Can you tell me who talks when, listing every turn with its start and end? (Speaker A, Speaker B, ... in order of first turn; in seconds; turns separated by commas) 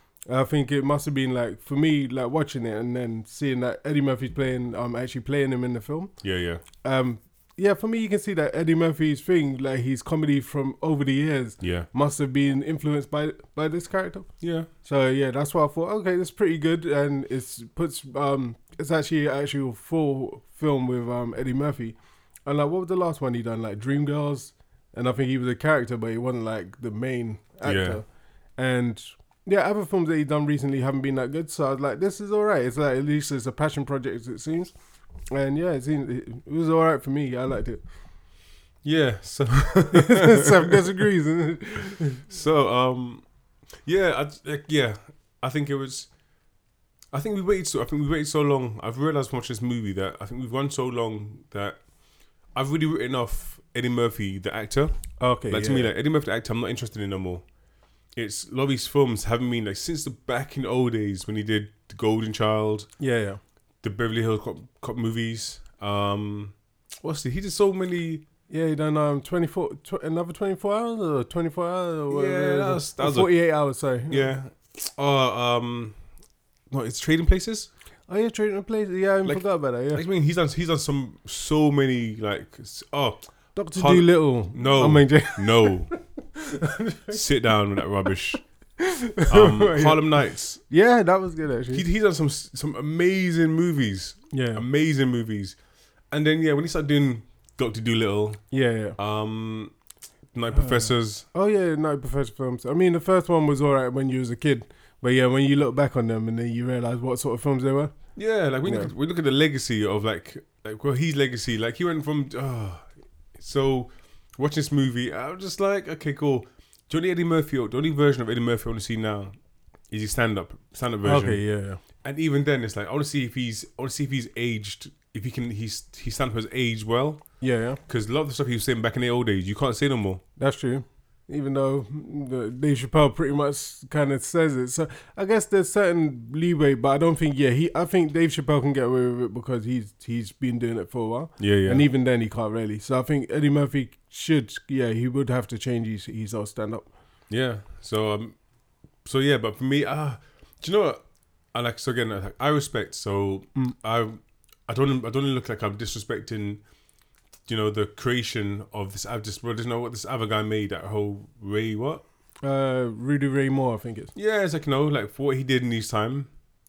Speaker A: 0.3-6.1, Speaker B: 6.2-6.6, Speaker A: 6.8-14.3, Speaker B: 11.6-11.9, Speaker B: 14.4-14.7, Speaker A: 14.8-34.7, Speaker B: 27.6-28.0, Speaker A: 35.3-37.8, Speaker B: 38.8-41.0, Speaker A: 39.9-42.2, Speaker B: 42.3-43.2, Speaker B: 43.8-46.1, Speaker B: 47.1-51.8, Speaker B: 52.5-57.5, Speaker A: 55.2-55.9, Speaker B: 58.1-62.9, Speaker A: 63.0-63.4, Speaker B: 63.8-68.2, Speaker A: 68.5-74.3, Speaker B: 72.1-73.3, Speaker B: 74.1-76.0, Speaker B: 76.7-77.7, Speaker A: 78.1-80.0, Speaker B: 79.2-83.2, Speaker A: 83.6-85.8, Speaker B: 83.7-85.9, Speaker A: 86.3-87.2, Speaker B: 87.1-88.4, Speaker A: 88.8-90.1, Speaker B: 89.3-90.6, Speaker A: 90.7-91.8, Speaker B: 91.7-95.6, Speaker A: 94.3-94.6, Speaker B: 96.1-98.4, Speaker A: 98.5-99.0, Speaker B: 99.0-99.7, Speaker B: 100.3-101.2, Speaker A: 100.5-107.9, Speaker B: 108.2-119.3, Speaker A: 108.7-108.9, Speaker B: 119.9-121.4, Speaker A: 121.0-121.8, Speaker B: 122.0-127.3, Speaker A: 127.4-127.8, Speaker B: 127.9-130.2, Speaker A: 130.4-146.9, Speaker B: 141.4-141.9, Speaker B: 147.3-148.3, Speaker B: 149.1-151.0, Speaker B: 151.5-156.6, Speaker B: 157.5-162.0, Speaker A: 162.4-164.1, Speaker B: 164.2-166.3